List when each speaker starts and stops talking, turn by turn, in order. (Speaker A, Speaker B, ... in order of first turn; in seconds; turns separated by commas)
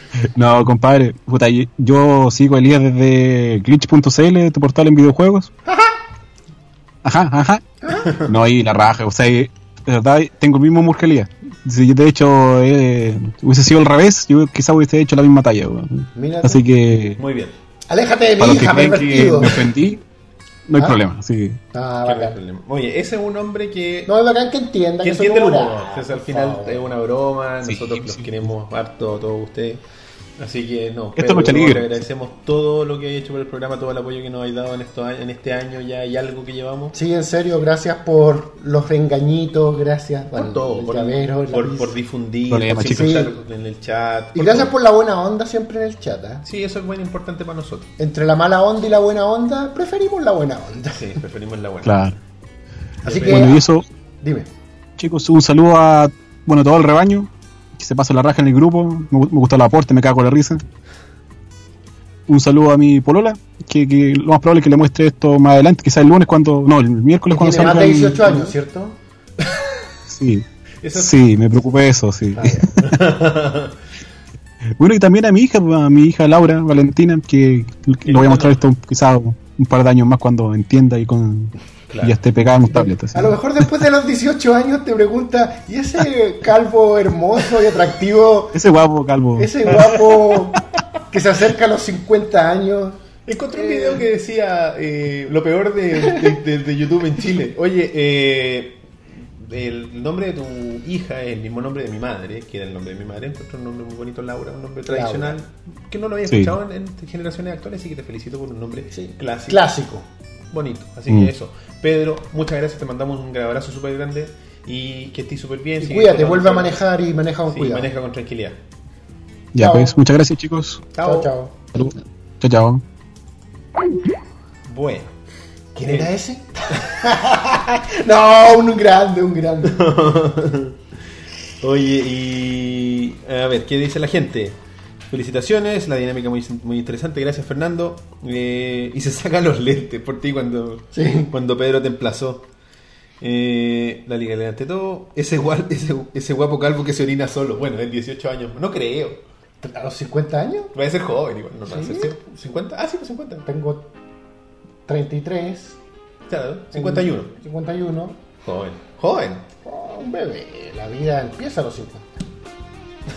Speaker A: 0.3-5.5, Speaker B: 5.7-6.0, Speaker A: 7.0-17.2, Speaker B: 7.8-8.1, Speaker C: 7.9-8.3, Speaker B: 16.1-16.7, Speaker C: 17.2-17.6, Speaker B: 17.9-19.7, Speaker A: 18.4-20.0, Speaker A: 20.7-21.6, Speaker B: 21.7-22.4, Speaker C: 22.0-24.1, Speaker B: 24.1-26.9, Speaker C: 25.0-29.8, Speaker A: 27.7-28.3, Speaker C: 30.4-37.0, Speaker A: 31.2-31.9, Speaker B: 36.9-42.0, Speaker C: 40.3-44.8, Speaker A: 42.5-43.2, Speaker B: 42.8-43.4, Speaker B: 44.4-46.5, Speaker C: 46.4-47.9, Speaker B: 48.0-51.2, Speaker C: 50.9-52.2, Speaker A: 51.8-52.2, Speaker C: 53.0-53.5, Speaker B: 53.0-53.7, Speaker A: 53.3-53.9, Speaker B: 54.2-54.5, Speaker A: 55.0-60.6, Speaker A: 62.3-68.4, Speaker B: 67.3-69.0, Speaker A: 70.1-72.8, Speaker C: 70.8-71.2, Speaker B: 72.4-72.7, Speaker C: 72.7-73.8, Speaker A: 74.8-83.4, Speaker C: 78.0-78.6, Speaker C: 81.9-82.2, Speaker B: 82.7-88.6, Speaker A: 88.5-90.6, Speaker B: 89.3-94.1, Speaker C: 93.3-109.7, Speaker B: 96.0-96.4, Speaker B: 104.9-105.4, Speaker A: 106.3-106.5, Speaker B: 108.9-110.1, Speaker C: 110.5-116.8, Speaker B: 115.8-117.9, Speaker C: 117.5-118.6, Speaker A: 119.5-120.9, Speaker B: 119.5-120.0, Speaker C: 120.9-121.3, Speaker B: 121.0-121.6, Speaker A: 121.8-122.8, Speaker C: 124.7-125.1, Speaker B: 125.8-129.8, Speaker C: 125.8-126.1, Speaker C: 129.6-130.8, Speaker C: 131.6-134.6, Speaker C: 135.1-142.5, Speaker B: 140.9-141.3, Speaker C: 143.2-149.2, Speaker B: 149.6-150.7, Speaker C: 150.7-153.5, Speaker B: 151.7-152.3, Speaker B: 153.4-153.9, Speaker B: 154.9-155.8, Speaker C: 156.3-157.3, Speaker B: 156.7-158.2, Speaker C: 158.4-159.5, Speaker B: 159.7-162.1